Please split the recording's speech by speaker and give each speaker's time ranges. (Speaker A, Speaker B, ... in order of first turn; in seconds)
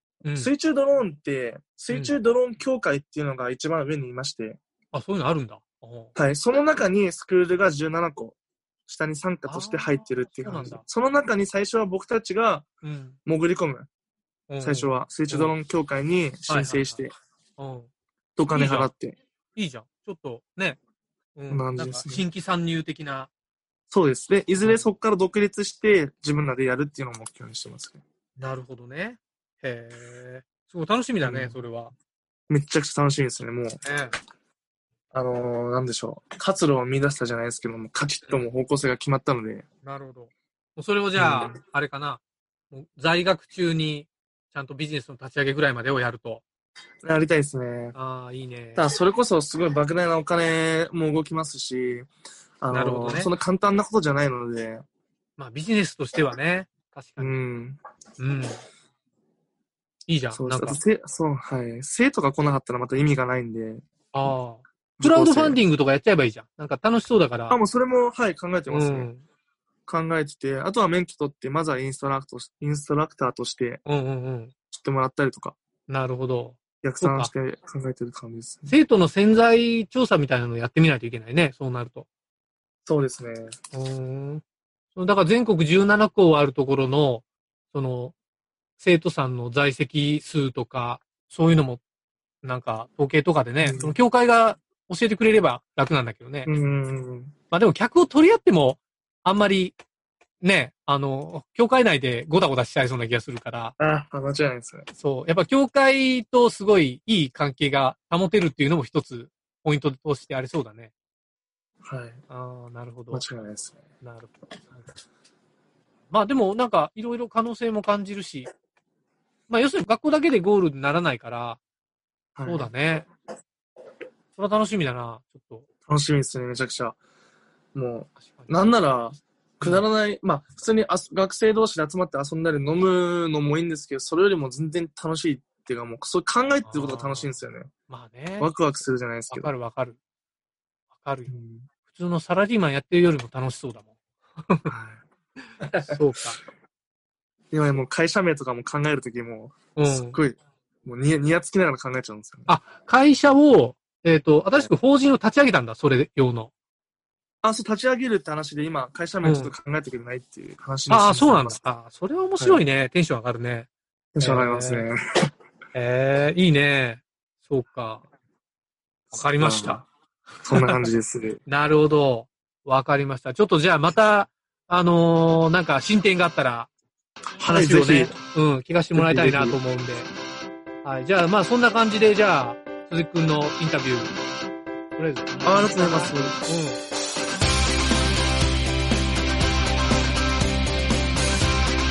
Speaker A: 0.2-0.5, 4.9-6.1, 9.4-10.8, 12.8-13.2, 14.5-15.5, 16.5-17.9, 18.5-18.9, 19.5-20.8, 21.3-23.3, 24.6-24.9, 28.4-31.9, 33.8-34.2, 39.8-46.4, 47.9-48.8, 52.7-53.3, 55.4-57.4, 58.2-58.6, 60.1-60.8, 64.1-67.6, 68.7-69.2, 73.8-74.5, 75.9-77.3, 78.7-82.1, 83.7-84.4, 84.9-88.1, 88.8-91.8, 92.4-96.5, 97.5-99.8, 100.4-103.8, 104.9-110.9, 112.3-113.3, 114.0-114.8, 116.1-118.5, 119.5-121.6, 122.4-123.1, 124.3-125.7, 128.2-128.6, 136.6-138.5, 139.3-140.0, 140.9-141.3, 141.9-143.9, 144.4-144.7, 145.5-146.4, 149.8-150.2, 152.5-156.5, 159.2-159.5, 160.9-164.9, 165.7-168.1, 169.1-169.8, 170.5-170.9, 171.5-176.7, 177.4-180.1, 180.8-184.1, 184.9-186.8
Speaker B: 0.3-4.6, 6.2-8.3, 8.9-12.7, 13.2-13.9, 14.6-17.1, 18.4-19.2, 21.5-22.2, 23.9-28.0, 31.2-31.6, 32.5-33.8, 35.1-39.6, 41.2-41.6, 47.0-47.9, 48.8-52.1, 52.6-54.8, 57.2-57.8, 60.3-63.8, 65.0-65.6, 67.5-69.1, 69.9-73.8, 74.7-75.6, 76.8-78.8, 82.8-83.5, 93.6-93.9, 96.5-97.3, 103.8-104.9, 111.8-112.2, 113.1-113.8, 122.4-122.7, 125.9-127.0, 127.8-137.7, 138.4-139.5, 141.3-141.7, 144.7-145.0, 147.5-152.5, 157.4-161.6, 164.1-165.0, 169.4-169.8, 170.4-171.4, 177.4-178.1, 178.9-179.6, 185.4-186.4